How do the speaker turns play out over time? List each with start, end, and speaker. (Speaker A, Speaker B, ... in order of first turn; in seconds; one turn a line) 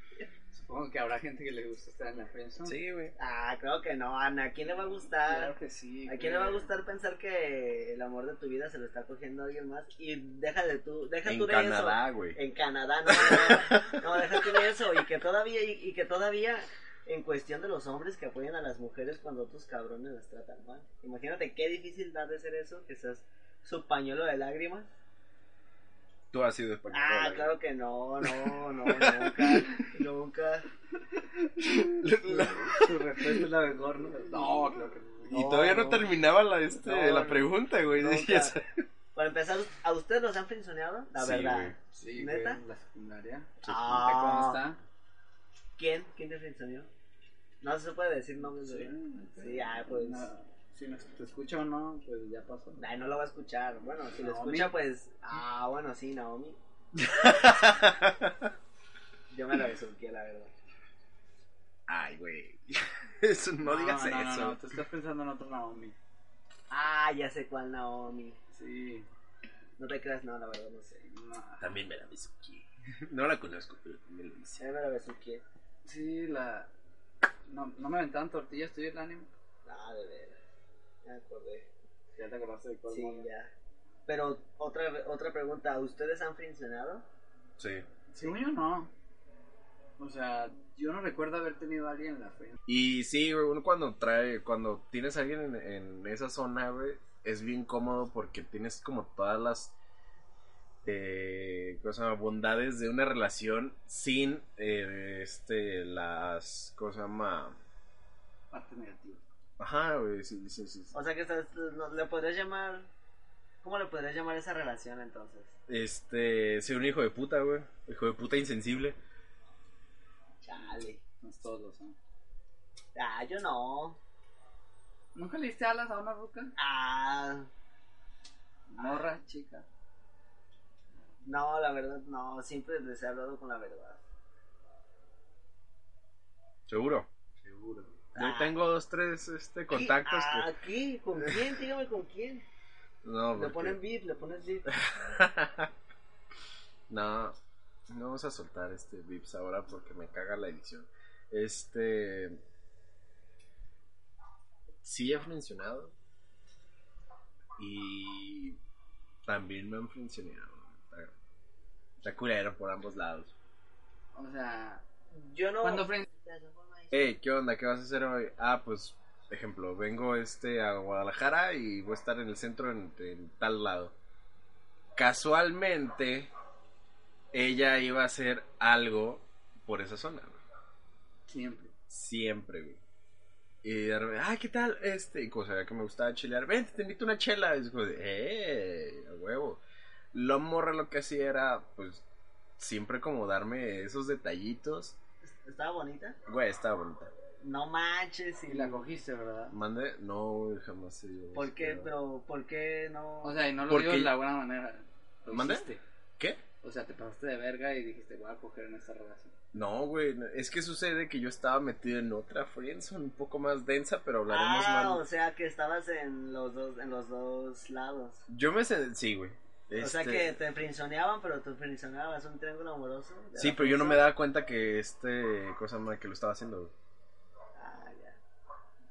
Speaker A: 0.5-2.8
Speaker B: 2.6-3.1
Speaker C: 3.2-5.5
Speaker A: 5.3-6.7
Speaker C: 6.1-24.9
Speaker B: 11.2-12.4
Speaker B: 13.1-14.7
Speaker B: 26.3-27.6
Speaker C: 26.9-30.7
Speaker B: 28.2-29.8
Speaker B: 31.6-33.4
Speaker A: 32.2-35.6
Speaker B: 34.4-34.7
Speaker B: 35.3-38.8
Speaker C: 35.3-36.1
Speaker C: 36.8-38.6
Speaker C: 39.1-42.6
Speaker B: 41.2-41.8
Speaker A: 41.9-44.8
Speaker B: 43.6-44.1
Speaker C: 43.6-44.6
Speaker C: 45.8-46.9
Speaker C: 47.6-50.3
Speaker A: 48.6-52.8
Speaker C: 52.8-56.6
Speaker A: 54.2-54.7
Speaker B: 57.1-58.5
Speaker C: 59.3-60.5
Speaker B: 61.9-64.6
Speaker A: 63.6-66.0
Speaker C: 66.7-68.4
Speaker A: 68.5-69.1
Speaker C: 69.8-71.1
Speaker A: 71.1-71.7
Speaker B: 71.6-74.6
Speaker C: 74.6-75.4
Speaker A: 75.8-76.7
Speaker A: 77.5-79.3
Speaker C: 79.7-80.4
Speaker C: 81.0-81.7
Speaker A: 82.2-83.3
Speaker C: 82.9-83.5
Speaker C: 84.1-87.0
Speaker B: 87.6-87.9
Speaker A: 88.1-88.9
Speaker A: 90.0-92.6
Speaker B: 92.7-99.7
Speaker B: 100.8-107.6
Speaker A: 108.5-109.2
Speaker B: 109.6-110.9
Speaker C: 110.9-112.9
Speaker C: 113.6-115.5
Speaker B: 115.7-119.0
Speaker C: 120.4-121.0
Speaker A: 121.2-122.0
Speaker C: 123.0-124.0
Speaker A: 125.2-126.5
Speaker C: 126.6-127.5
Speaker A: 128.7-129.7
Speaker C: 131.2-134.0
Speaker B: 136.7-140.5
Speaker C: 138.2-138.5
Speaker C: 139.7-142.4
Speaker B: 143.0-143.8
Speaker C: 143.3-144.7
Speaker B: 144.7-145.7
Speaker B: 146.9-147.4
Speaker B: 147.9-152.4
Speaker B: 154.8-155.9
Speaker B: 157.6-158.6
Speaker B: 159.2-161.1
Speaker B: 162.0-163.3
Speaker A: 164.1-164.8
Speaker C: 165.1-167.1
Speaker A: 165.6-166.0
Speaker B: 166.9-173.9
Speaker B: 175.0-176.3
Speaker B: 177.3-180.4
Speaker A: 181.3-181.7
Speaker B: 181.9-182.8
Speaker B: 183.6-189.6
Speaker B: 190.1-192.0
Speaker B: 192.6-195.0
Speaker C: 195.2-196.2
Speaker B: 196.3-197.1
Speaker C: 197.4-198.9
Speaker A: 198.5-199.6
Speaker B: 199.5-201.9
Speaker C: 201.3-203.4
Speaker A: 203.2-205.8
Speaker B: 203.7-204.1
Speaker B: 205.3-206.4
Speaker A: 206.6-209.3
Speaker B: 209.5-215.0
Speaker C: 214.3-218.2
Speaker B: 218.3-220.3
Speaker C: 219.8-224.1
Speaker B: 223.4-226.7
Speaker C: 227.6-228.2